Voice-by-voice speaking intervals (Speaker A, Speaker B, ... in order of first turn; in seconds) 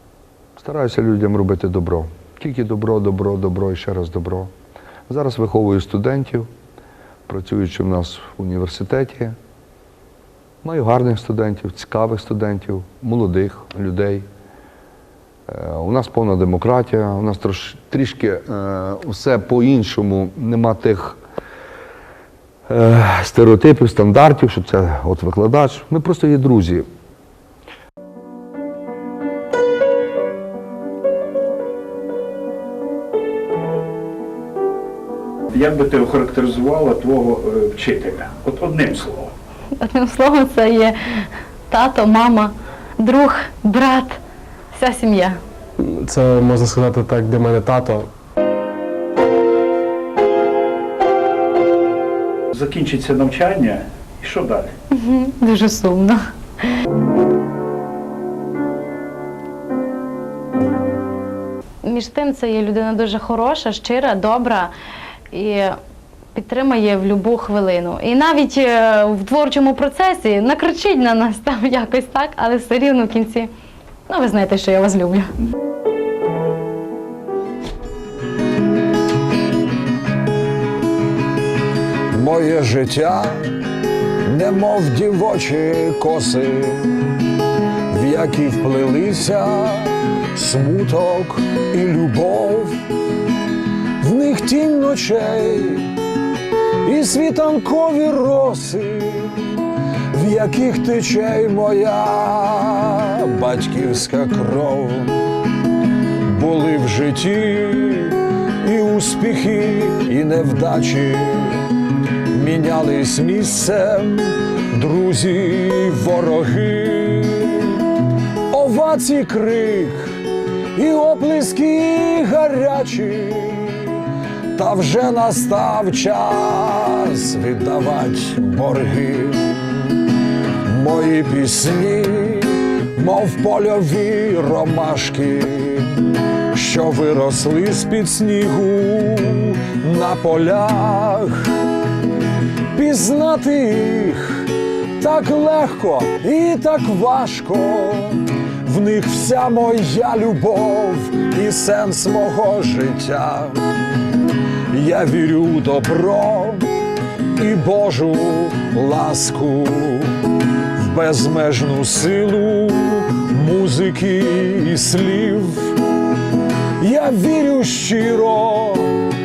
Speaker A: 0.6-4.5, 5.1-6.5, 7.3-9.4, 10.6-14.3, 15.5-21.2, 22.7-26.9
Speaker B: 35.5-39.3, 52.5-54.7
Speaker C: 39.8-41.0, 41.7-44.2, 44.7-45.4, 54.9-56.2, 61.8-64.7, 65.3-65.8, 66.3-73.5, 74.1-75.3
Speaker D: 45.8-48.1
Speaker E: 82.1-83.4, 84.2-87.0, 87.9-92.8, 94.0-95.9, 96.8-99.6, 100.1-105.2, 106.3-111.7, 112.3-117.8, 118.5-120.2, 120.8-124.0, 124.5-129.8, 130.6-141.5, 142.7-153.7, 154.7-156.7, 157.4-160.2, 160.8-165.8, 166.8-169.1